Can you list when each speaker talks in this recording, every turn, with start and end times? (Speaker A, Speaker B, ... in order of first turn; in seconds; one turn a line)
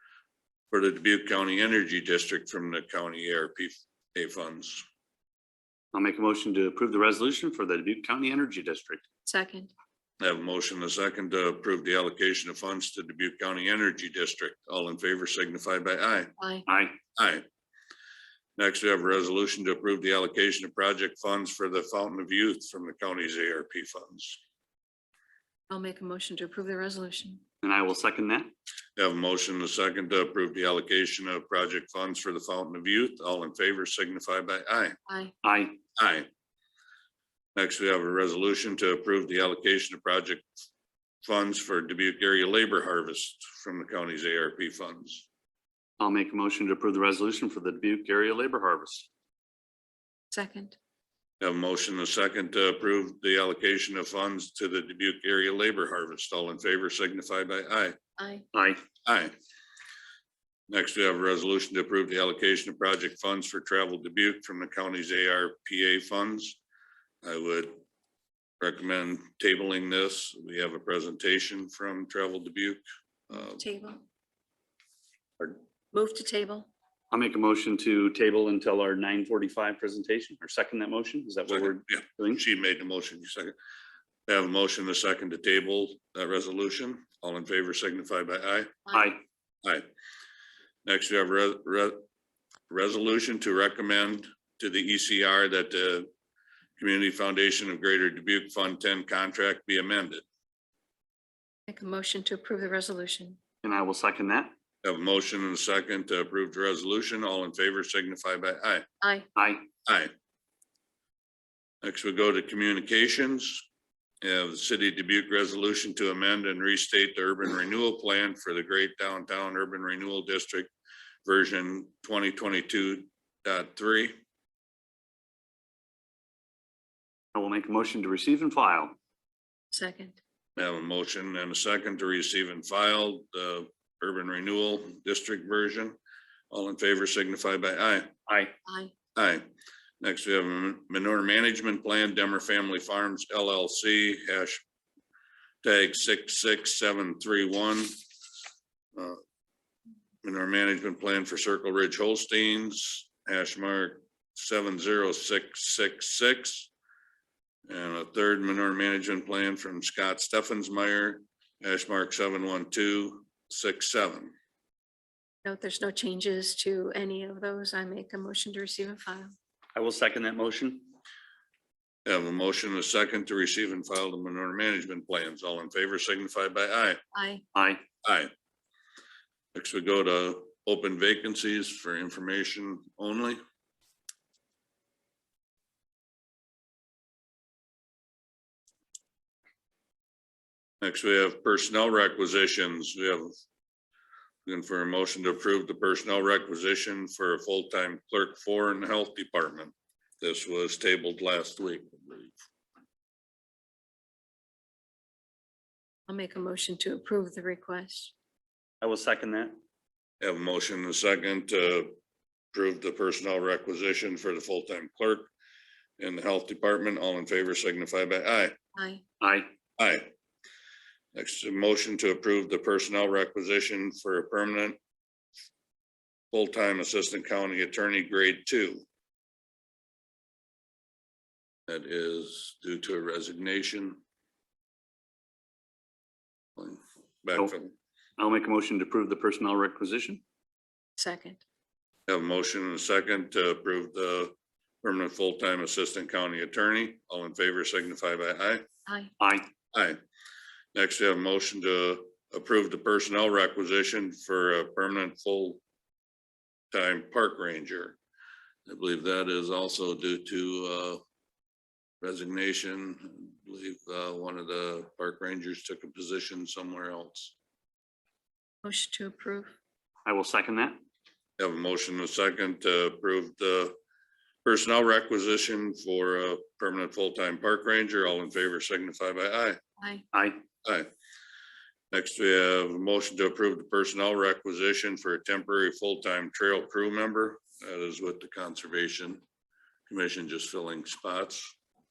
Speaker A: 0.7-4.8
Speaker B: 5.9-9.0
Speaker C: 9.2-9.7
Speaker A: 10.2-16.3
Speaker C: 16.4-16.7
Speaker B: 16.7-17.0
Speaker A: 17.1-17.4
Speaker A: 18.6-24.4
Speaker C: 25.7-27.4
Speaker B: 27.6-28.5
Speaker A: 29.0-35.0
Speaker C: 35.1-35.3
Speaker B: 35.4-35.8
Speaker A: 36.0-36.3
Speaker A: 37.5-40.5
Speaker A: 41.2-45.3
Speaker B: 46.0-49.1
Speaker C: 50.3-50.8
Speaker A: 51.4-58.0
Speaker C: 58.2-58.4
Speaker B: 58.5-58.8
Speaker A: 59.0-59.3
Speaker A: 60.7-66.6
Speaker A: 67.2-67.8
Speaker A: 68.6-73.6
Speaker C: 73.3-74.0
Speaker C: 75.5-76.7
Speaker B: 77.1-82.4
Speaker A: 81.5-83.5
Speaker A: 84.3-88.9
Speaker B: 88.9-89.2
Speaker A: 90.8-92.0
Speaker A: 92.7-96.1
Speaker A: 96.8-100.2
Speaker C: 101.7-103.4
Speaker B: 103.6-104.5
Speaker A: 104.8-108.8
Speaker C: 109.0-109.3
Speaker B: 109.3-109.7
Speaker A: 109.9-110.1
Speaker A: 111.8-113.7
Speaker A: 114.2-120.7
Speaker A: 121.2-124.1
Speaker B: 127.3-128.9
Speaker C: 129.7-130.2
Speaker A: 130.6-136.0
Speaker A: 136.5-138.1
Speaker B: 138.3-138.5
Speaker C: 138.7-138.9
Speaker A: 139.1-139.4
Speaker A: 140.0-144.6
Speaker A: 145.6-147.9
Speaker A: 148.9-149.2
Speaker A: 150.2-156.7
Speaker A: 157.7-164.3
Speaker C: 165.4-169.3
Speaker B: 169.7-170.9
Speaker A: 172.1-177.0
Speaker C: 177.1-177.4
Speaker B: 177.5-177.8
Speaker A: 178.0-178.3
Speaker A: 179.5-183.4
Speaker A: 190.8-193.3
Speaker A: 194.4-202.4
Speaker C: 206.1-208.1
Speaker B: 208.8-209.5
Speaker A: 210.2-211.9
Speaker A: 212.5-215.3
Speaker A: 216.0-218.5
Speaker C: 218.8-219.0
Speaker B: 219.2-219.5
Speaker A: 219.8-220.1
Speaker A: 221.1-224.8
Speaker A: 226.3-228.8
Speaker A: 231.7-234.0
Speaker A: 236.6-237.7
Speaker B: 238.2-240.2
Speaker C: 241.0-241.4
Speaker A: 242.1-248.6
Speaker C: 248.9-249.1
Speaker B: 249.2-249.5
Speaker A: 249.7-250.0
Speaker A: 250.7-255.6
Speaker A: 256.7-258.0
Speaker A: 258.6-261.0
Speaker A: 262.0-267.3
Speaker C: 268.6-269.5
Speaker B: 270.0-270.8
Speaker A: 271.4-273.8
Speaker A: 274.4-279.6
Speaker C: 279.8-280.0
Speaker B: 280.1-280.4
Speaker A: 280.6-280.9
Speaker A: 281.9-289.2
Speaker A: 289.9-291.5